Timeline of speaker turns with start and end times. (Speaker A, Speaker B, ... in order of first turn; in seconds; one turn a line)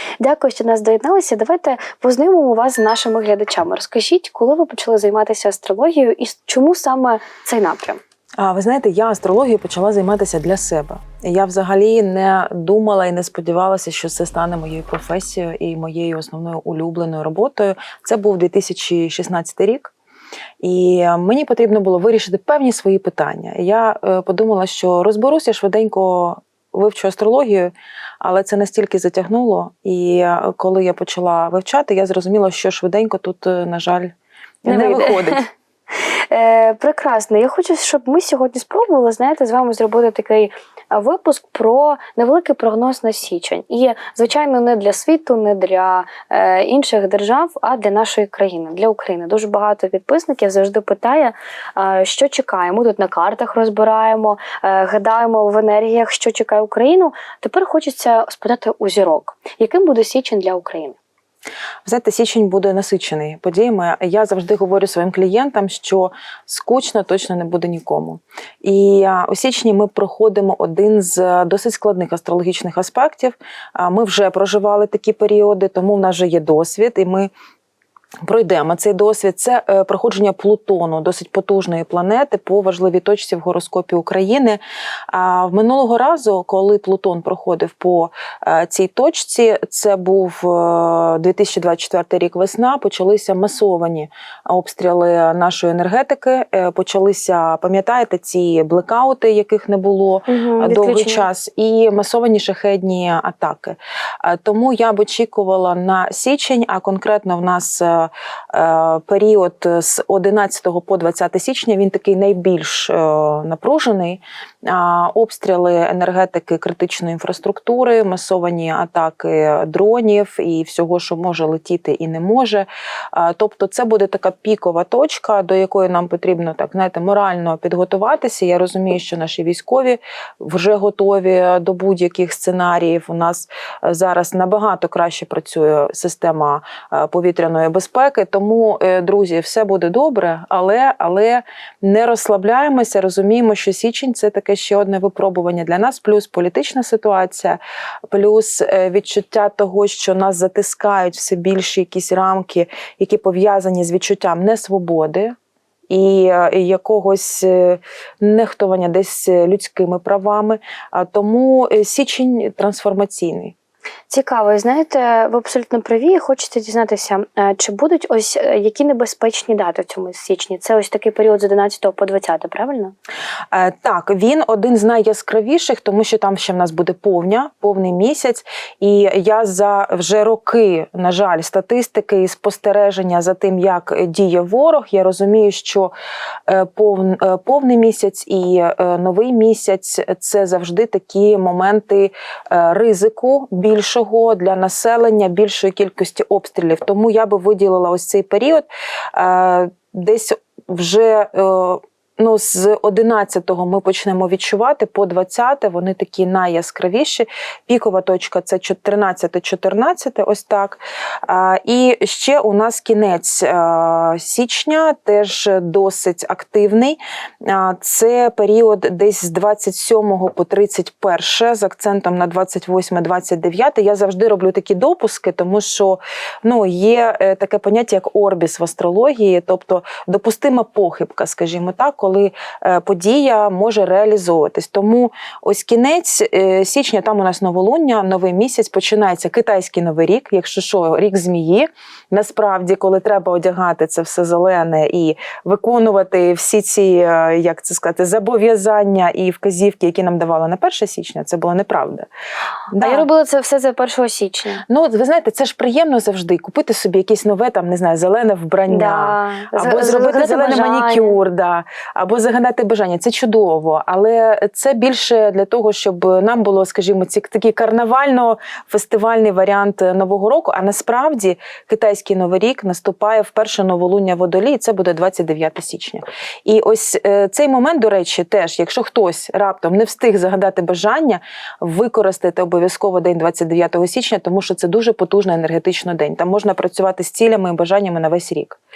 Speaker A: 0.2-8.0
Speaker B: 8.4-19.9
Speaker B: 20.6-34.1
Speaker B: 34.6-35.4
Speaker A: 34.7-61.0
Speaker B: 61.9-77.3
Speaker B: 78.2-155.4
Speaker A: 100.3-101.3
Speaker B: 155.9-163.6
Speaker A: 164.1-172.9
Speaker B: 173.5-185.9
Speaker B: 186.5-252.1
Speaker B: 252.7-253.1
Speaker A: 252.8-254.6
Speaker B: 254.7-288.6
Speaker A: 258.7-261.2